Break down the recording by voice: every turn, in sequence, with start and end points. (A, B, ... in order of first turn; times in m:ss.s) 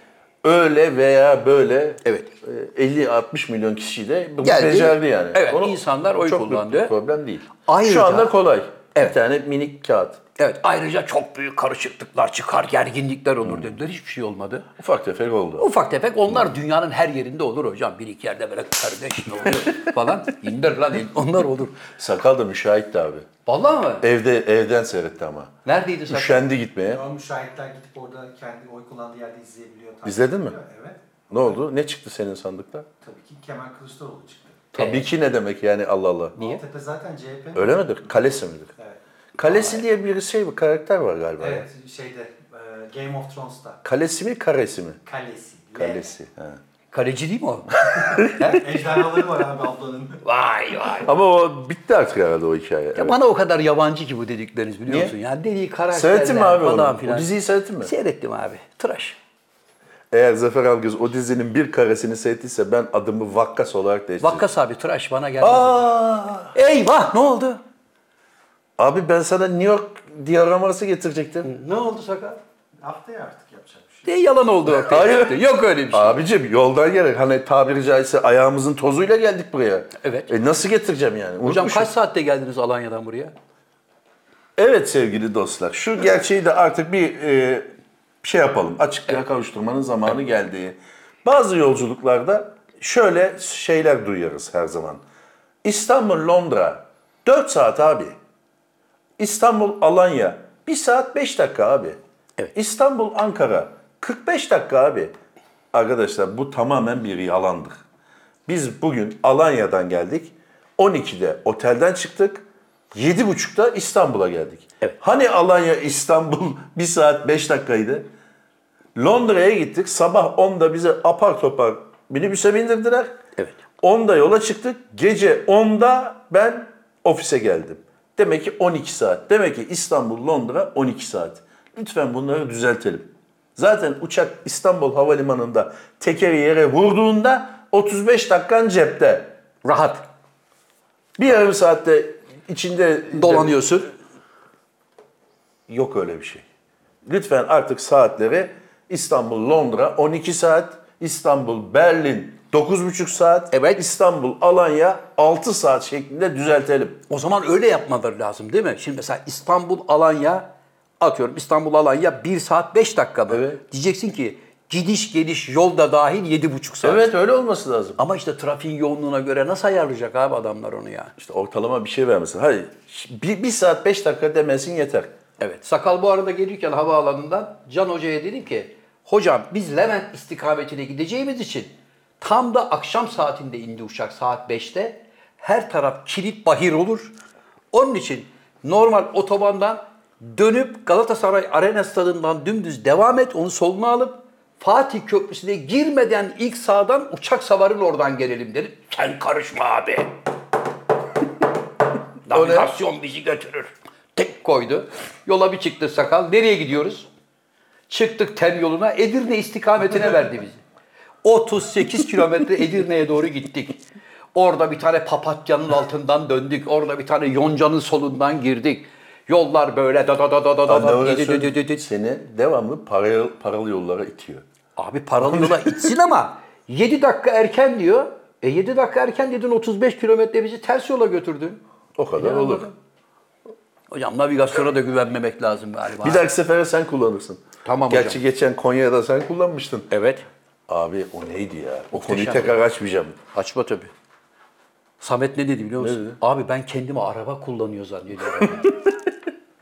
0:00.4-0:10.2 A
0:02.0-0:02.3 B
0:04.4-0:06.9 B
0:07.6-0:08.3 B
0:10.4-0:14.7 B
0:13.4-0:13.7 A
0:14.8-0:15.7 A
0:15.6-0:21.8 B
0:21.8-0:23.3 A
0:23.5-0:24.1 B
0:24.0-0:25.6 A
0:25.6-0:26.5 B
0:26.1-0:27.0 A
0:26.8-0:31.6 C
0:30.0-0:30.6 A
0:31.3-0:32.9 A
0:33.0-0:34.7 C
0:34.7-0:36.4 A
0:34.8-0:35.1 B
0:36.4-0:38.0 C
0:36.4-0:36.6 B
0:37.6-0:38.7 A
0:38.8-0:39.8 C
0:39.4-0:41.7 A
0:41.4-0:43.8 C
0:43.8-0:45.0 A
0:45.1-0:46.1 C
0:45.8-0:46.6 A
0:46.9-0:48.7 B
0:47.9-0:48.4 A
0:47.9-0:50.2 C
0:50.2-0:51.1 B
0:51.0-0:53.2 A
0:53.0-0:57.3 B
0:54.9-0:55.1 A
0:55.9-0:57.9 A
0:57.8-0:59.2 B
1:00.1-1:04.4 A
1:04.2-1:06.0 B
1:05.4-1:06.5 A
1:06.5-1:07.6 B
1:08.8-1:11.5 A
1:11.4-1:12.4 B
1:12.8-1:14.1 C
1:14.1-1:16.2 B
1:14.7-1:21.9 A
1:20.0-1:20.3 B
1:21.4-1:23.3 B
1:24.6-1:27.7 A
1:28.2-1:35.0 A
1:35.6-1:38.2 A
1:39.2-1:42.0 A
1:42.6-1:45.1 A
1:45.7-1:47.8 A
1:48.5-1:58.1 A
1:59.0-2:03.1 A
2:03.8-2:19.3 A
2:19.6-2:20.0 B
2:21.2-2:23.6 A
2:23.1-2:23.9 B
2:25.7-2:26.4 A
2:27.0-2:37.0 A
2:33.5-2:33.8 B
2:37.1-2:40.5 B
2:41.0-2:47.1 B
2:43.3-2:43.6 A
2:46.8-2:48.0 A
2:48.0-2:51.1 B
2:51.2-2:55.1 A
2:55.4-3:07.2 B
3:07.7-3:20.1 B
3:22.3-3:27.1 B
3:22.3-3:22.7 A
3:27.9-3:30.6 B
3:31.2-3:33.8 B
3:34.3-3:41.8 B
3:40.7-3:44.4 A
3:44.8-3:51.6 B
3:45.2-3:45.9 A
3:52.0-3:52.7 A
3:52.2-3:52.7 B
3:53.9-3:56.2 B
3:56.0-3:59.9 A
3:57.6-3:58.2 B
3:59.9-4:00.2 B
4:00.7-4:03.2 A
4:01.9-4:02.6 B
4:03.3-4:03.9 B
4:05.0-4:08.7 B
4:05.8-4:06.2 A